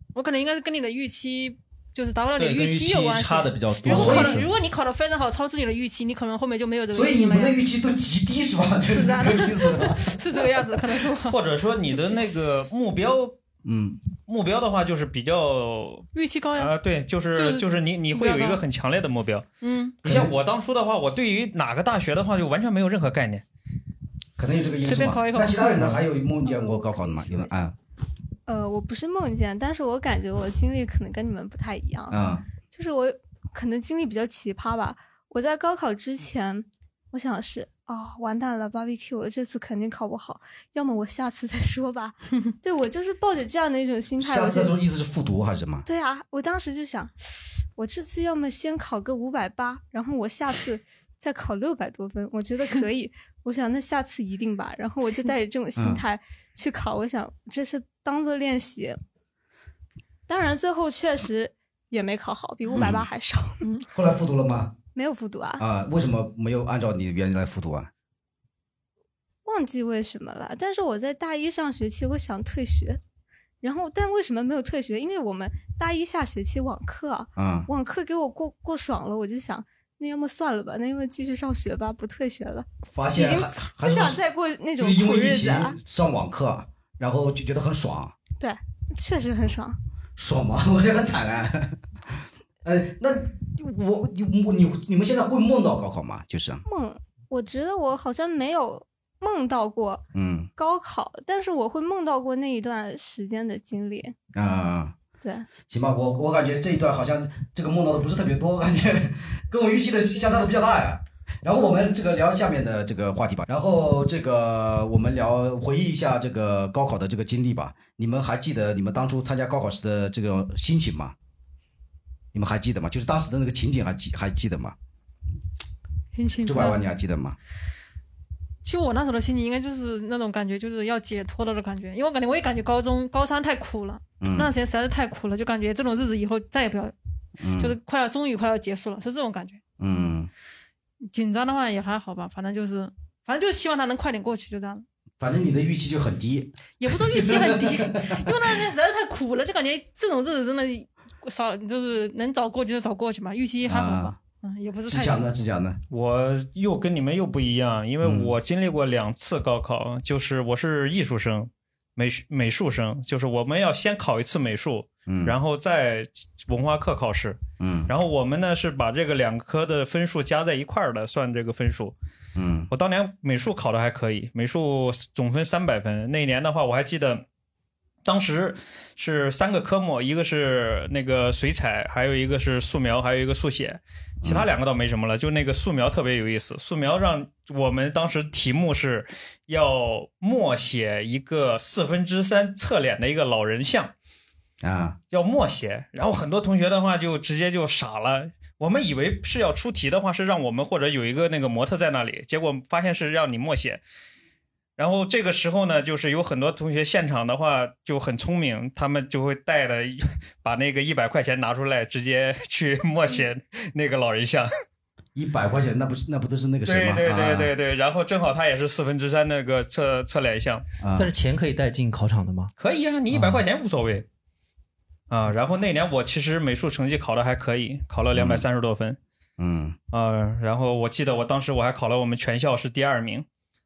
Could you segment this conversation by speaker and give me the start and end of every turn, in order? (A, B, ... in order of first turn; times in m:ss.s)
0:00.1-0:07.6 A
0:02.4-0:04.5 B
0:03.9-0:04.4 C
0:06.9-0:10.4 C
0:08.8-0:11.4 A
0:11.2-0:13.4 D
0:13.6-0:14.0 C
0:14.3-0:19.4 D
0:16.1-0:16.7 A
0:17.3-0:18.6 A
0:19.6-0:20.0 A
0:20.0-0:20.4 C
0:20.0-0:23.4 D
0:24.4-0:27.7 C
0:24.8-0:26.0 A
0:26.4-0:27.5 E
0:28.5-0:44.7 E
0:32.1-0:32.4 C
0:44.2-0:45.9 C
0:45.8-0:59.0 E
0:55.8-0:56.0 C
1:00.3-1:03.6 E
1:02.8-1:03.1 C
1:03.6-1:03.9 A
1:03.9-1:04.7 C
1:04.9-1:05.6 E
1:05.6-1:07.9 C
1:09.4-1:13.0 E
1:13.6-1:25.8 E
1:17.4-1:17.7 C
1:22.9-1:24.2 C
1:24.8-1:28.1 C
1:28.4-1:29.8 E
1:30.2-1:36.6 C
1:36.6-1:40.0 E
1:40.1-1:40.5 C
1:40.6-1:44.1 E
1:44.3-1:45.0 C
1:45.2-1:45.5 E
1:45.7-2:01.1 C
2:02.3-2:04.8 C
2:06.1-2:06.8 A
2:06.4-2:07.4 C
2:08.6-2:16.9 A
2:14.2-2:14.5 C
2:17.4-2:17.8 C
2:17.6-2:19.6 A
2:19.8-2:20.3 C
2:21.0-2:24.8 A
2:25.2-2:28.5 C
2:26.8-2:35.2 A
2:33.6-2:34.1 C
2:34.8-2:35.8 C
2:35.9-2:51.9 D
2:38.0-2:38.3 C
2:45.1-2:45.3 C
2:47.6-2:47.9 C
2:52.4-2:52.7 C
2:52.7-2:57.2 D
2:58.0-3:13.9 D
3:04.2-3:04.5 C
3:14.6-3:15.0 C
3:15.1-3:23.8 D
3:24.8-3:34.5 D
3:35.1-3:37.5 C
3:36.6-3:40.6 D
3:40.8-3:41.1 C
3:41.0-3:42.5 B
3:42.6-3:44.0 D
3:45.1-3:49.0 D
3:48.1-3:48.4 C
3:49.4-3:49.8 C
3:49.9-3:53.2 D